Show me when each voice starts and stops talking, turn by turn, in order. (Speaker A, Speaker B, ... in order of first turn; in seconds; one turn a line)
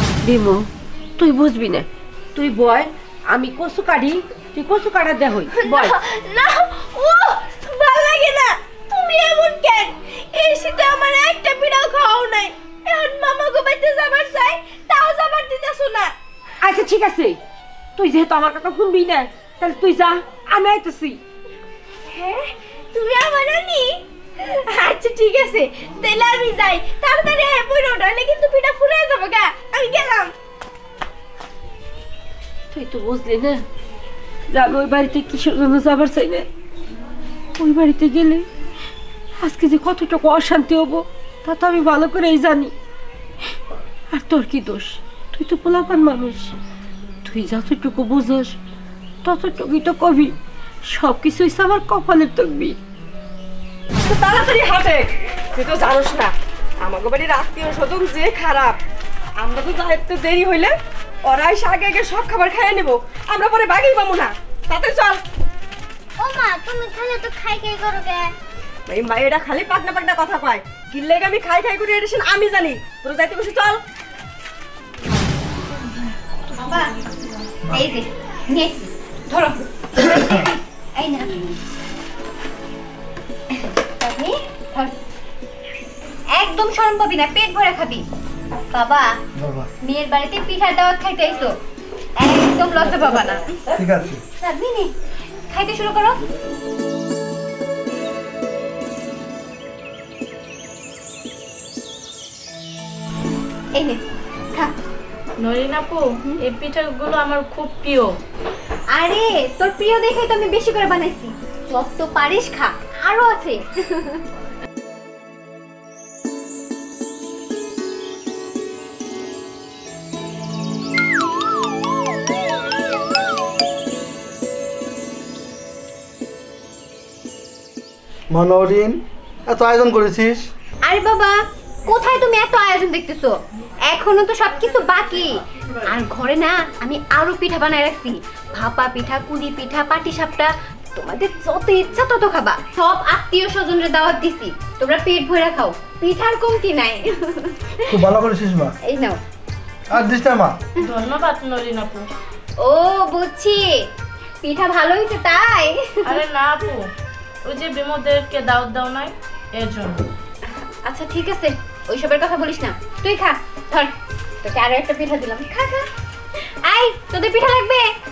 Speaker A: 0.2-6.0
Speaker B: 5.6-16.1
Speaker A: 16.6-17.4
Speaker A: 18.0-21.2
Speaker B: 22.1-24.0
Speaker B: 24.7-30.3
Speaker A: 32.7-33.6
Speaker A: 34.5-36.5
Speaker A: 37.6-38.5
Speaker A: 39.4-42.7
Speaker A: 44.1-46.5
Speaker A: 47.2-48.6
Speaker A: 49.2-50.3
Speaker A: 50.9-52.8
Speaker C: 54.0-58.8
Speaker C: 59.4-65.2
Speaker D: 66.3-68.0
Speaker C: 68.9-73.8
Speaker D: 76.5-76.9
Speaker D: 77.7-81.5
Speaker D: 83.6-85.0
Speaker D: 86.3-88.0
Speaker D: 88.7-89.2
Speaker E: 89.4-89.7
Speaker D: 89.8-91.5
Speaker D: 92.2-93.6
Speaker E: 93.8-94.2
Speaker D: 94.4-94.9
Speaker D: 95.5-96.2
Speaker D: 103.8-104.0
Speaker F: 105.4-108.1
Speaker D: 108.9-114.2
Speaker E: 128.3-130.5
Speaker D: 130.8-147.6
Speaker E: 147.9-148.8
Speaker D: 148.8-149.2
Speaker E: 149.9-150.6
Speaker F: 150.8-152.1
Speaker D: 152.6-153.9
Speaker D: 154.4-156.2
Speaker F: 156.1-156.9
Speaker F: 157.5-160.1
Speaker D: 160.8-163.9
Speaker D: 164.4-165.9
Speaker D: 166.6-167.9